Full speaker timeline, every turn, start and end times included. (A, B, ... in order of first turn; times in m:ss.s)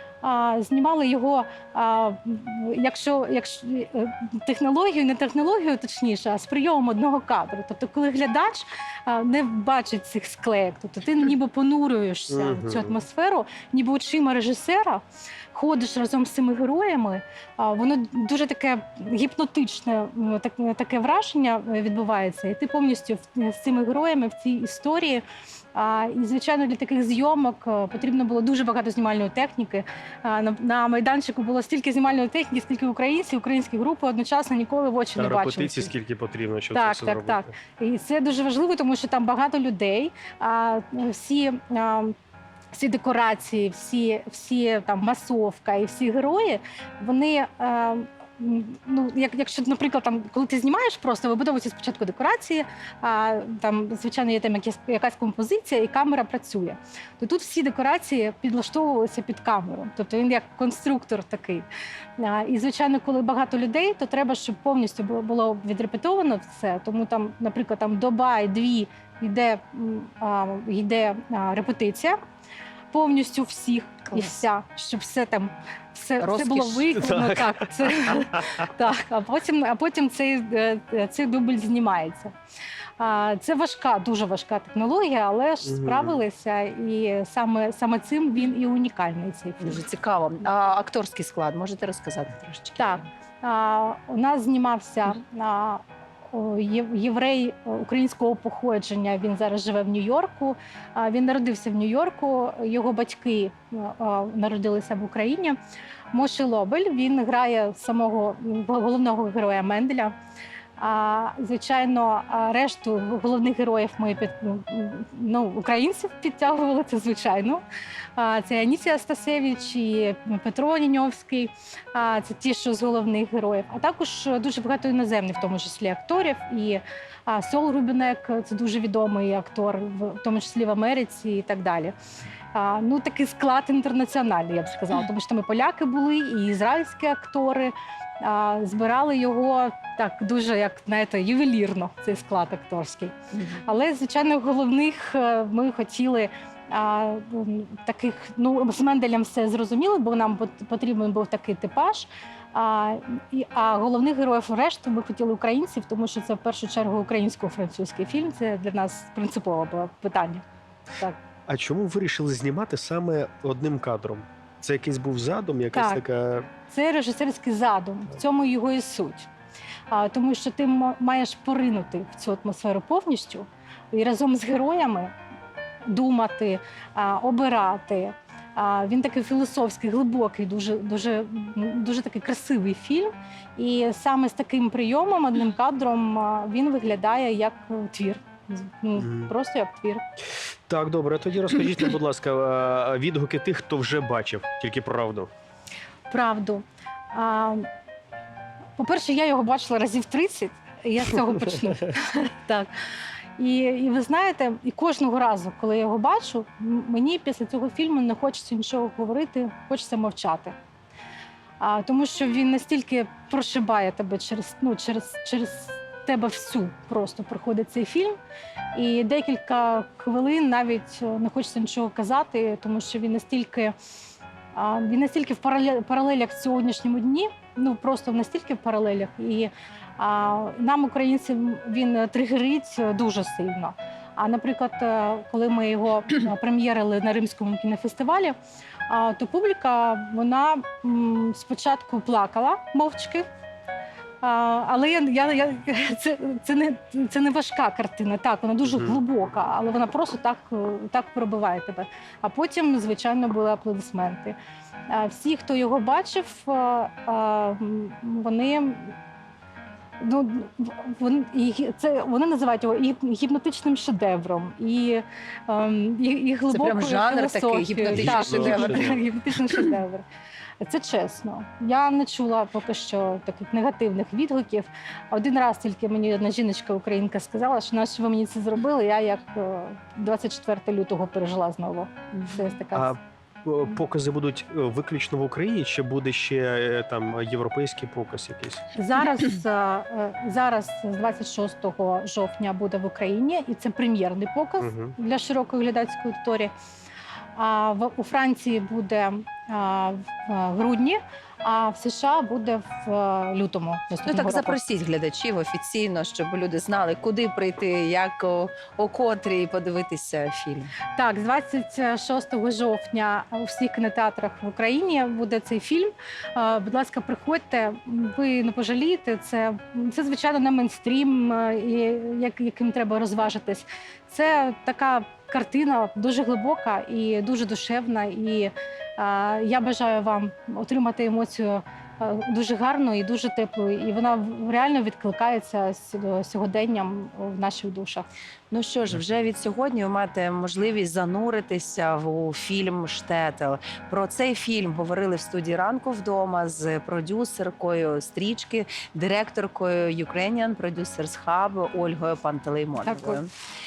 0:00.2-0:35.9 A
0:12.3-0:13.0 B
0:35.2-0:37.5 B
0:36.7-0:42.1 A
0:42.7-1:12.2 A
1:12.9-1:22.3 A
1:14.1-1:14.4 C
1:16.2-1:16.9 C
1:16.9-1:17.6 B
1:23.0-1:29.8 A
1:25.6-1:26.2 B
1:29.6-1:33.0 C
1:32.8-1:45.6 A
1:46.1-1:50.1 A
1:50.8-1:57.6 A
1:58.2-2:11.9 A
2:12.5-2:40.4 A
2:23.3-2:23.6 C
2:41.5-2:46.5 B
2:45.7-2:46.0 A
2:46.7-2:49.3 A
2:49.9-2:55.1 A
2:55.8-3:10.0 A
3:09.0-3:09.3 B
3:10.7-3:15.3 B
3:16.1-3:17.7 A
3:18.8-3:22.7 A
3:23.4-3:30.6 A
3:31.6-3:38.2 A
3:38.7-3:43.7 A
3:44.5-3:58.4 A
3:58.9-4:03.2 A
4:04.2-4:14.4 A
4:08.6-4:09.0 B
4:14.9-4:19.0 A
4:20.0-4:30.0 A
4:26.5-4:29.0 C
4:27.9-4:29.0 B
4:30.6-4:43.0 A
4:42.7-4:48.6 B
4:48.7-4:56.5 A
4:54.6-4:54.9 B
4:57.4-5:04.6 A
5:04.0-5:10.7 C
5:10.9-5:38.1 A
5:38.5-5:53.3 C
5:52.8-5:53.2 A